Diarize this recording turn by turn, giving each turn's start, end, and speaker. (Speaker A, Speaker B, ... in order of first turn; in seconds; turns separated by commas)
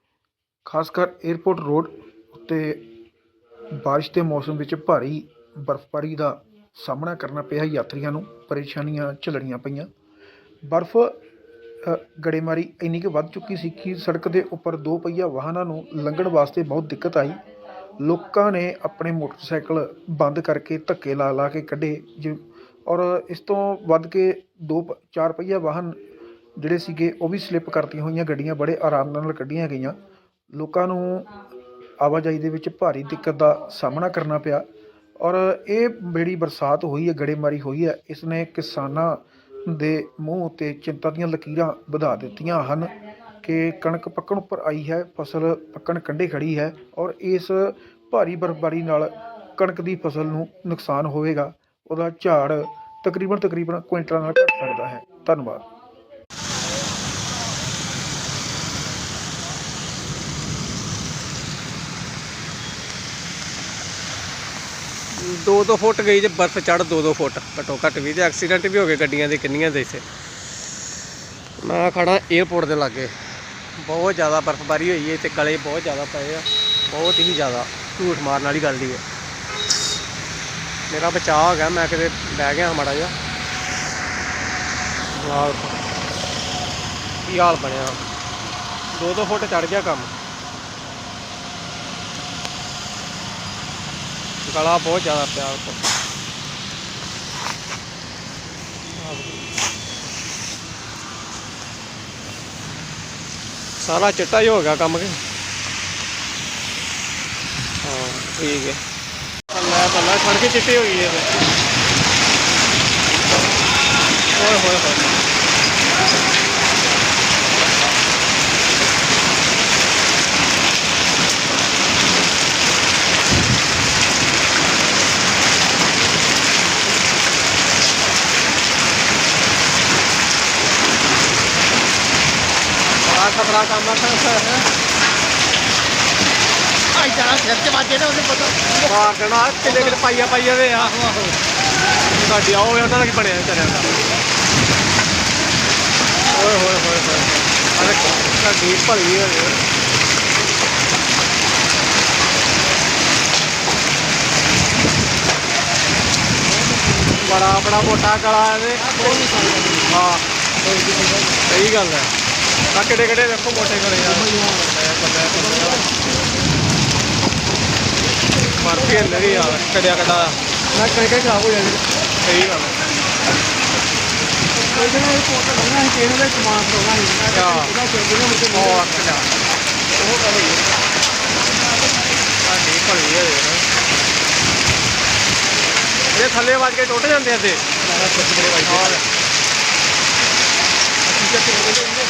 Speaker A: 0.7-2.8, Speaker A: 3.8-9.9, Speaker A: 10.7-11.2, Speaker A: 11.8-17.4, Speaker A: 18.0-26.0, Speaker A: 26.6-30.0, Speaker A: 30.6-31.3, Speaker A: 32.0-34.6, Speaker A: 35.2-55.6, Speaker B: 65.1-70.0, Speaker B: 71.6-73.2, Speaker B: 73.8-79.0, Speaker B: 80.9-83.2, Speaker B: 85.2-85.8, Speaker B: 87.2-88.0, Speaker B: 88.9-90.1, Speaker B: 94.5-95.8, Speaker B: 99.0-99.5, Speaker B: 103.8-105.2, Speaker B: 107.8-108.8, Speaker B: 109.5-111.3, Speaker B: 114.3-115.1, Speaker B: 133.0-134.7, Speaker B: 137.0-138.0, Speaker C: 137.2-138.6, Speaker B: 138.7-141.4, Speaker B: 142.1-144.0, Speaker B: 146.3-149.6, Speaker B: 157.2-160.2, Speaker C: 159.0-159.9, Speaker C: 160.7-161.3, Speaker B: 161.4-162.1, Speaker B: 162.7-165.9, Speaker C: 164.3-164.7, Speaker B: 168.6-170.4, Speaker C: 170.8-171.8, Speaker B: 172.2-172.8, Speaker C: 174.7-178.6, Speaker B: 177.2-177.9, Speaker B: 178.5-179.3, Speaker B: 180.0-180.4, Speaker B: 182.4-183.7, Speaker B: 186.1-189.1, Speaker C: 188.0-188.6, Speaker C: 191.3-191.8